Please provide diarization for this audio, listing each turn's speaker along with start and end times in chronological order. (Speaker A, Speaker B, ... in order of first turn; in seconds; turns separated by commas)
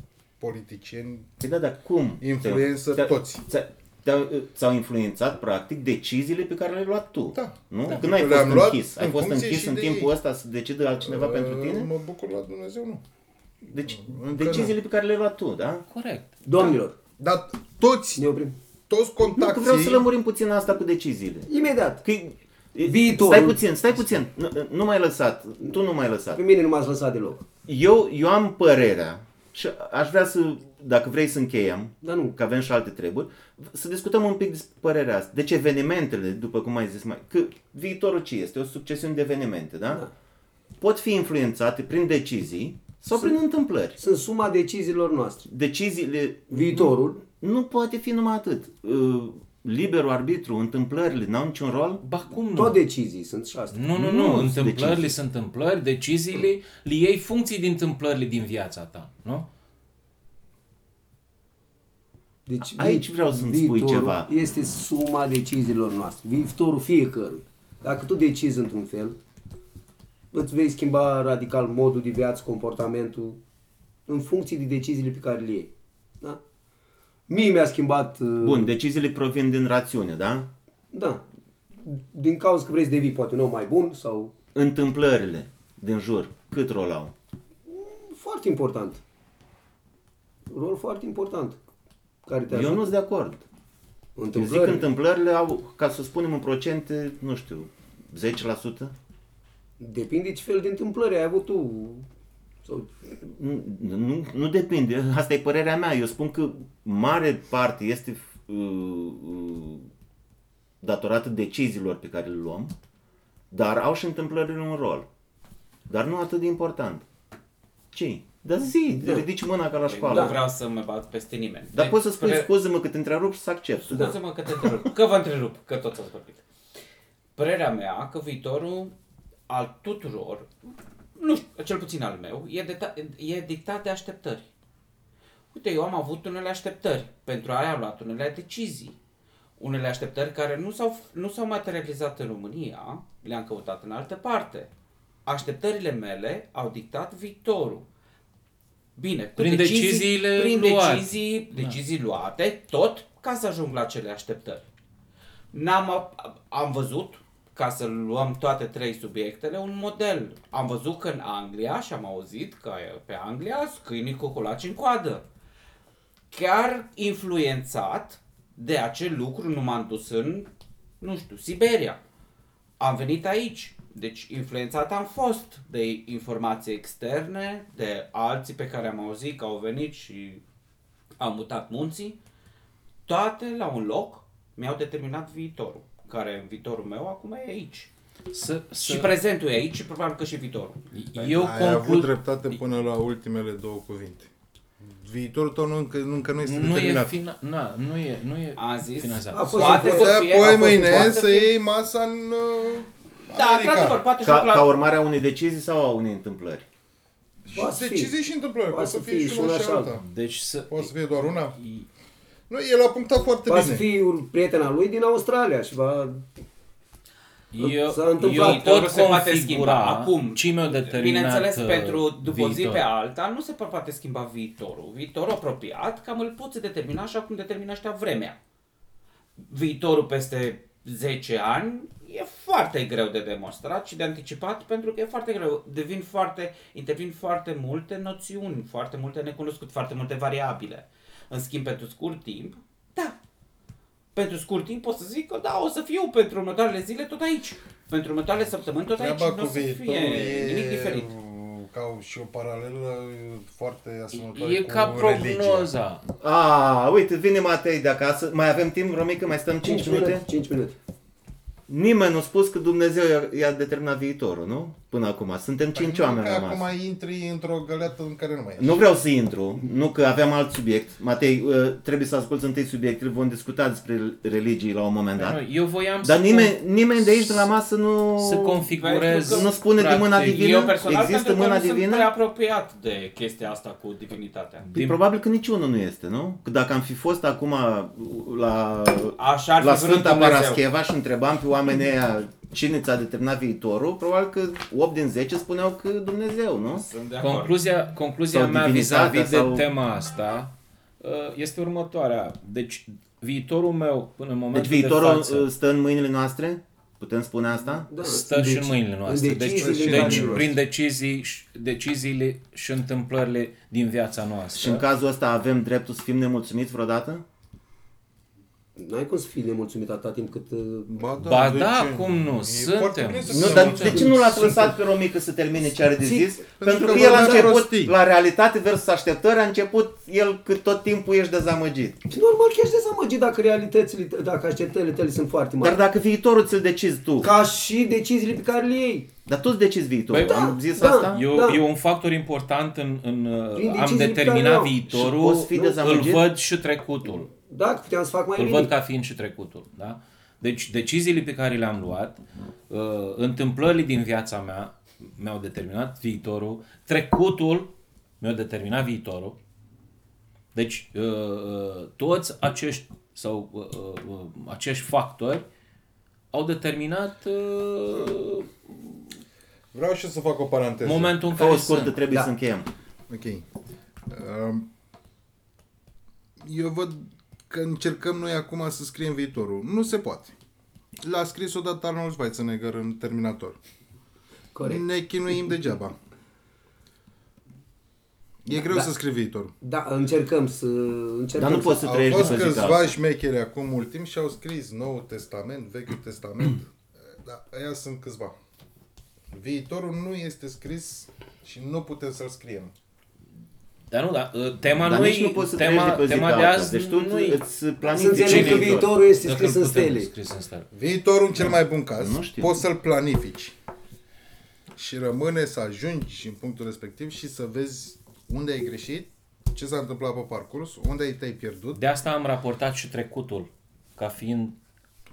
Speaker A: 0.4-1.3, Speaker B: 1.4-11.9, Speaker A: 2.2-3.4, Speaker A: 7.3-10.1, Speaker A: 11.0-13.0, Speaker B: 13.6-15.8, Speaker A: 13.8-14.8, Speaker C: 15.9-16.7, Speaker D: 16.4-16.9, Speaker A: 17.2-18.2, Speaker D: 18.2-18.6, Speaker A: 18.9-20.1, Speaker B: 19.2-21.5, Speaker D: 21.5-22.0, Speaker B: 22.0-26.4, Speaker D: 22.8-23.6, Speaker D: 26.3-27.4, Speaker B: 27.6-40.0, Speaker D: 32.0-32.4, Speaker B: 40.8-44.0, Speaker D: 44.0-45.5, Speaker B: 45.5-52.0, Speaker D: 46.5-47.2, Speaker C: 52.0-52.8, Speaker D: 52.5-53.8, Speaker C: 53.7-59.5, Speaker B: 53.9-55.1, Speaker D: 62.5-69.2, Speaker B: 62.6-64.3, Speaker D: 70.3-73.4, Speaker D: 74.1-76.4, Speaker D: 77.3-78.7, Speaker B: 78.4-80.5, Speaker D: 80.9-81.2, Speaker D: 81.8-84.3, Speaker B: 84.5-87.1, Speaker D: 87.7-89.0, Speaker D: 90.5-91.6, Speaker D: 92.2-92.9, Speaker B: 92.5-93.4, Speaker D: 94.2-94.8, Speaker B: 94.3-98.9, Speaker D: 99.8-102.0, Speaker D: 102.6-103.0, Speaker B: 103.2-109.9, Speaker B: 110.8-112.7, Speaker B: 113.5-115.1, Speaker B: 115.9-117.0, Speaker B: 117.9-120.4, Speaker D: 119.0-119.2, Speaker E: 119.9-122.5, Speaker D: 120.1-120.4, Speaker B: 121.7-124.1, Speaker E: 123.9-126.4, Speaker E: 127.3-128.9, Speaker E: 129.5-130.5, Speaker E: 131.2-134.4, Speaker E: 135.5-138.9, Speaker E: 139.6-144.7, Speaker E: 145.2-147.8, Speaker E: 148.9-154.7, Speaker C: 149.4-151.8, Speaker E: 155.5-165.2, Speaker E: 166.3-170.5, Speaker E: 171.0-172.0, Speaker E: 172.8-180.4, Speaker E: 181.2-182.2, Speaker E: 183.1-187.9, Speaker C: 188.3-189.1, Speaker E: 188.8-191.4, Speaker C: 190.9-192.1, Speaker A: 191.4-197.1, Speaker C: 196.4-199.7, Speaker E: 198.6-201.3, Speaker D: 199.3-201.4, Speaker A: 199.5-204.0, Speaker E: 203.3-204.8, Speaker B: 204.2-206.7, Speaker A: 207.4-210.0, Speaker D: 207.5-208.1, Speaker D: 208.7-209.9, Speaker C: 210.0-211.8, Speaker A: 210.7-211.6, Speaker A: 212.5-213.8, Speaker D: 213.5-216.3, Speaker C: 217.5-222.8, Speaker D: 217.6-218.7, Speaker E: 218.2-228.4, Speaker E: 229.5-243.2, Speaker E: 244.1-251.1, Speaker A: 248.9-255.7, Speaker C: 254.1-256.0, Speaker B: 256.2-260.2, Speaker D: 259.6-260.7, Speaker B: 261.7-266.6, Speaker A: 265.7-268.8, Speaker B: 268.6-275.4, Speaker C: 275.2-277.4, Speaker B: 276.0-278.6, Speaker C: 278.2-280.4, Speaker E: 278.7-279.5, Speaker B: 279.2-282.1, Speaker E: 280.1-284.7, Speaker C: 284.6-285.0, Speaker B: 284.7-296.9, Speaker E: 289.2-290.6, Speaker E: 296.7-297.5, Speaker C: 297.2-305.5, Speaker B: 298.3-299.6, Speaker B: 304.5-307.9, Speaker D: 307.9-310.5, Speaker C: 308.0-314.8, Speaker A: 309.6-310.6, Speaker B: 314.5-317.2, Speaker D: 318.8-320.9, Speaker A: 320.9-324.7, Speaker C: 321.2-324.2, Speaker B: 323.3-332.0, Speaker D: 324.1-324.7, Speaker D: 326.0-327.6, Speaker A: 326.6-327.9, Speaker D: 332.1-335.8, Speaker B: 335.6-337.3, Speaker D: 337.2-339.1, Speaker B: 339.2-341.2, Speaker C: 340.1-347.3, Speaker D: 340.2-341.6, Speaker D: 343.5-344.8, Speaker B: 344.9-346.2, Speaker D: 347.3-348.7, Speaker C: 348.4-359.4, Speaker C: 360.5-365.4, Speaker C: 366.3-368.7, Speaker A: 369.7-371.2, Speaker C: 370.8-372.0, Speaker B: 371.3-372.7, Speaker A: 373.1-373.4, Speaker A: 374.1-374.7, Speaker A: 376.4-380.3, Speaker A: 381.0-383.6, Speaker D: 384.5-384.8, Speaker A: 384.6-385.9, Speaker A: 388.4-389.5, Speaker D: 388.6-388.9, Speaker D: 389.6-392.4, Speaker B: 391.4-392.9, Speaker A: 391.8-398.4, Speaker A: 399.3-402.7, Speaker C: 403.9-407.4, Speaker B: 404.8-408.9, Speaker D: 407.9-410.1, Speaker C: 408.0-410.7, Speaker A: 410.7-413.5, Speaker B: 412.0-412.5, Speaker A: 414.8-421.8, Speaker C: 421.8-424.5